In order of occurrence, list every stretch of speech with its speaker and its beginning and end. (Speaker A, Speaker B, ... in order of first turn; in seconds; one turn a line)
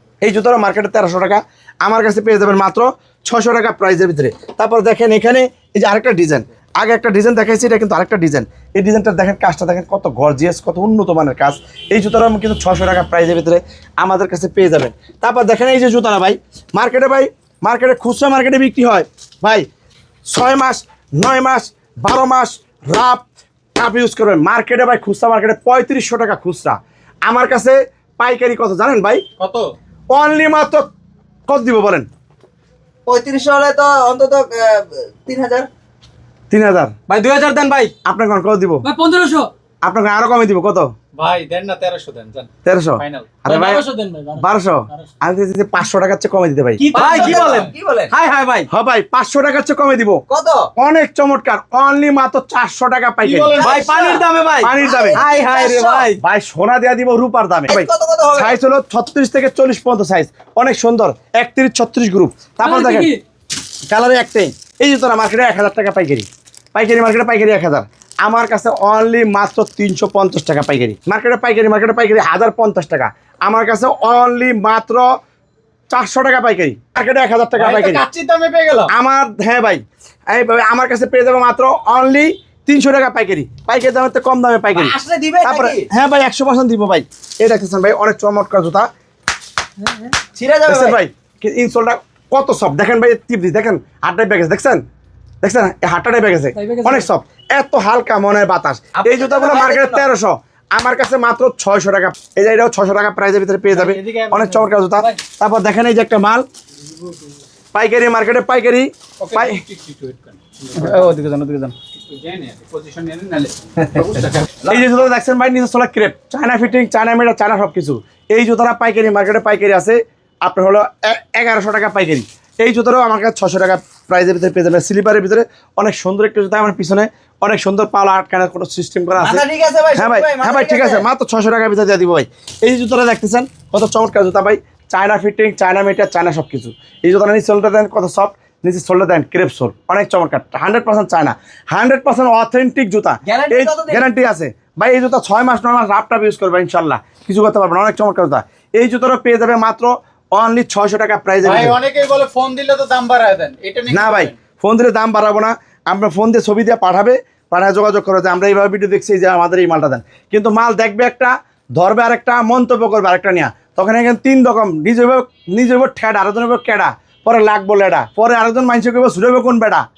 Speaker A: 0.2-19.6
Speaker A: 20.3-23.2
Speaker A: 23.8-29.2
Speaker A: 30.1-30.9
Speaker A: 31.5-32.1
Speaker B: 33.1-35.7
Speaker A: 36.5-36.9
Speaker C: 37.1-37.9
Speaker A: 38.0-38.9
Speaker D: 38.8-39.5
Speaker A: 39.8-40.9
Speaker E: 41.2-42.5
Speaker D: 41.2-42.1
Speaker A: 42.6-43.8
Speaker D: 43.0-45.0
Speaker A: 44.4-47.5
Speaker B: 46.8-48.1
Speaker C: 46.9-48.7
Speaker A: 48.7-50.2
Speaker B: 50.3-50.7
Speaker A: 50.8-53.8
Speaker D: 53.2-53.8
Speaker B: 53.5-56.1
Speaker C: 53.6-56.2
Speaker A: 54.6-55.2
Speaker A: 56.2-63.1
Speaker B: 57.7-58.5
Speaker D: 62.6-63.2
Speaker A: 63.9-75.1
Speaker A: 75.9-78.0
Speaker C: 77.8-78.8
Speaker A: 78.9-84.9
Speaker B: 84.7-85.9
Speaker A: 85.5-88.9
Speaker B: 89.9-91.0
Speaker A: 90.7-94.8
Speaker A: 95.4-106.5
Speaker D: 96.6-97.1
Speaker B: 99.0-100.1
Speaker D: 103.8-105.1
Speaker A: 107.7-109.6
Speaker E: 109.2-111.0
Speaker D: 110.8-111.1
Speaker C: 110.8-111.7
Speaker E: 112.1-113.8
Speaker A: 114.6-129.4
Speaker B: 129.2-131.1
Speaker A: 130.0-151.8
Speaker B: 143.3-144.1
Speaker E: 151.4-154.1
Speaker D: 151.5-154.3
Speaker A: 153.9-169.8